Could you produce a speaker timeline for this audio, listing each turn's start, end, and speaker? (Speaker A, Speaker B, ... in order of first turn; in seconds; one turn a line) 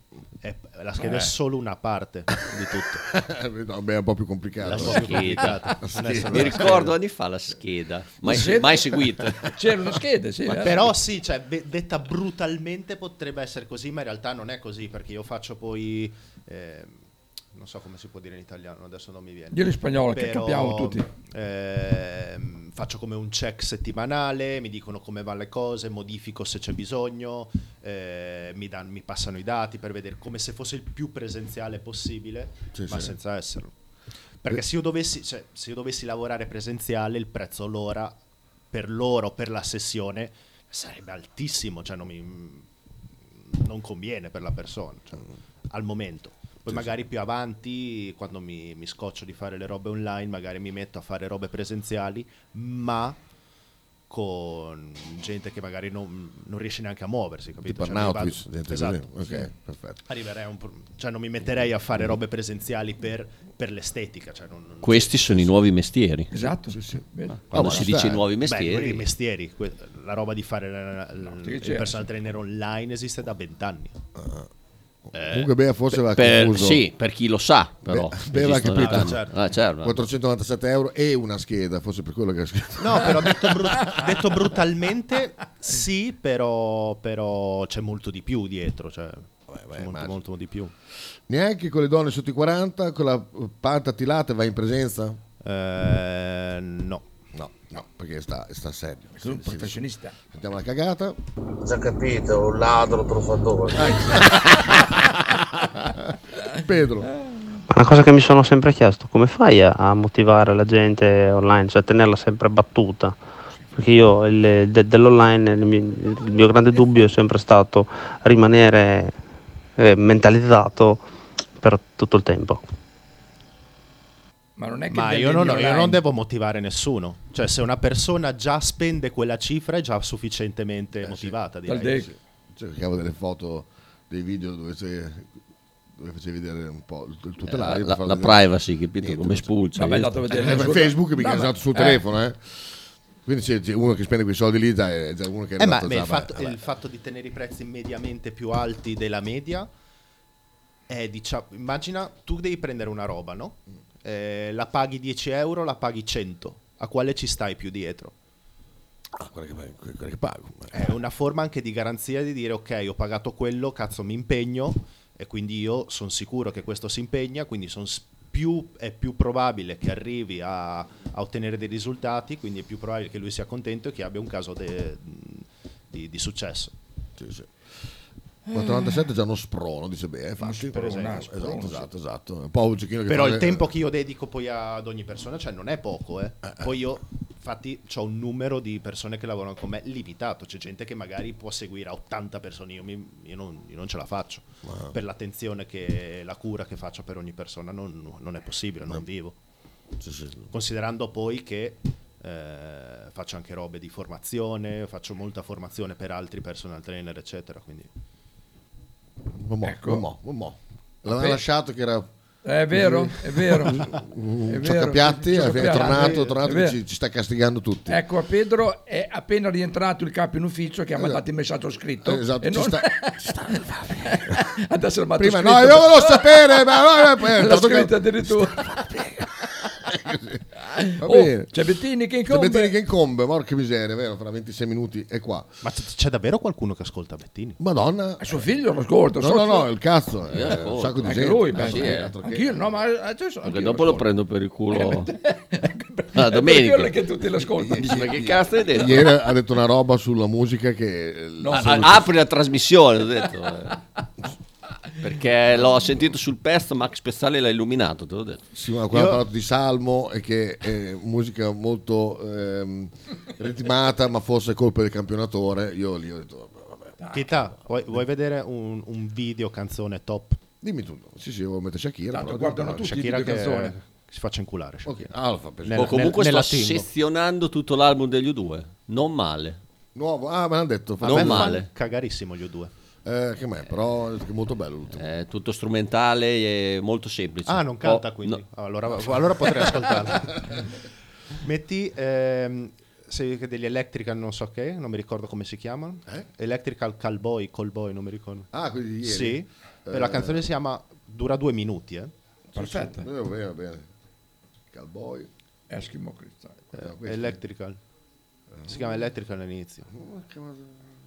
Speaker A: 0.4-3.1
Speaker B: 1.0-1.3
Speaker C: 3.1-6.9
Speaker A: 4.6-6.9
Speaker D: 4.8-5.6
Speaker D: 6.2-9.5
Speaker B: 8.2-8.9
Speaker B: 9.5-10.9
Speaker A: 10.5-17.0
Speaker A: 17.5-33.7
Speaker B: 19.5-21.1
Speaker C: 32.7-33.1
Speaker A: 34.4-38.2
Speaker A: 38.7-42.7
Speaker A: 43.4-53.2
Speaker A: 54.1-59.5
Speaker C: 57.6-60.0
Speaker A: 60.1-65.5
Speaker D: 64.8-66.3
Speaker B: 66.3-67.9
Speaker C: 66.7-68.3
Speaker D: 67.5-69.1
Speaker A: 68.4-74.0
Speaker B: 71.3-72.0
Speaker C: 74.2-74.5
Speaker A: 75.1-75.5
Speaker C: 75.1-76.8
Speaker D: 75.9-80.0
Speaker C: 77.8-79.3
Speaker A: 78.6-79.4
Speaker C: 79.8-84.0
Speaker A: 82.8-90.7
Speaker C: 89.5-90.2
Speaker C: 91.3-95.2
Speaker A: 95.4-97.0
Speaker C: 97.3-101.2
Speaker B: 99.2-100.2
Speaker E: 101.6-103.9
Speaker C: 103.7-107.1
Speaker F: 107.7-113.1
Speaker F: 113.8-119.1
Speaker F: 119.8-121.0
Speaker F: 121.6-122.6
Speaker B: 124.6-126.0
Speaker A: 124.9-132.0
Speaker C: 131.0-135.3
Speaker B: 131.7-132.1
Speaker C: 136.0-138.4
Speaker D: 137.4-140.1
Speaker C: 139.0-139.5
Speaker B: 139.8-142.0
Speaker C: 140.3-142.6
Speaker C: 143.2-146.6
Speaker A: 145.6-149.7
Speaker A: 150.9-158.1
Speaker C: 159.2-160.8
Speaker A: 160.7-176.7
Speaker C: 177.2-177.5
Speaker B: 178.5-179.0
Speaker C: 178.5-183.6
Speaker B: 180.4-181.9
Speaker A: 180.7-181.2
Speaker A: 183.1-199.3
Speaker C: 186.4-186.7
Speaker C: 194.6-194.9
Speaker C: 200.0-200.5
Speaker A: 200.5-207.9
Speaker C: 209.4-212.1
Speaker B: 209.6-210.0
Speaker B: 211.1-211.4
Speaker B: 212.4-213.9
Speaker C: 212.7-218.0
Speaker B: 214.5-216.8
Speaker A: 215.5-216.4
Speaker B: 217.9-228.7
Speaker C: 222.0-224.4
Speaker C: 225.2-229.3
Speaker C: 229.8-230.4
Speaker B: 230.7-232.8
Speaker C: 231.0-231.5
Speaker C: 232.3-235.5
Speaker A: 235.6-237.6
Speaker C: 237.6-238.4
Speaker B: 238.2-239.7
Speaker C: 239.2-242.6
Speaker D: 240.3-242.1
Speaker B: 241.0-244.1
Speaker D: 243.4-245.1
Speaker B: 244.7-248.1
Speaker D: 246.1-246.9
Speaker C: 247.5-252.1
Speaker D: 247.7-249.1
Speaker B: 251.4-252.0
Speaker D: 251.5-253.7
Speaker D: 255.0-258.4
Speaker C: 258.5-266.9
Speaker A: 258.9-259.2
Speaker B: 267.0-267.3
Speaker A: 267.1-270.4
Speaker C: 270.6-273.0
Speaker B: 272.1-273.7
Speaker A: 272.8-275.1
Speaker C: 274.8-275.9
Speaker A: 275.6-276.9
Speaker D: 275.7-279.6
Speaker C: 279.9-281.6
Speaker D: 281.0-281.7
Speaker A: 281.1-282.7
Speaker C: 283.1-285.1
Speaker D: 284.9-288.4
Speaker A: 287.4-290.3
Speaker A: 291.4-298.5
Speaker C: 298.5-300.4
Speaker A: 299.0-302.1
Speaker B: 302.5-303.1
Speaker C: 302.5-303.9
Speaker C: 304.7-305.3
Speaker B: 305.7-306.6
Speaker A: 306.7-307.8
Speaker C: 306.7-307.4
Speaker A: 308.7-309.9
Speaker C: 309.9-310.8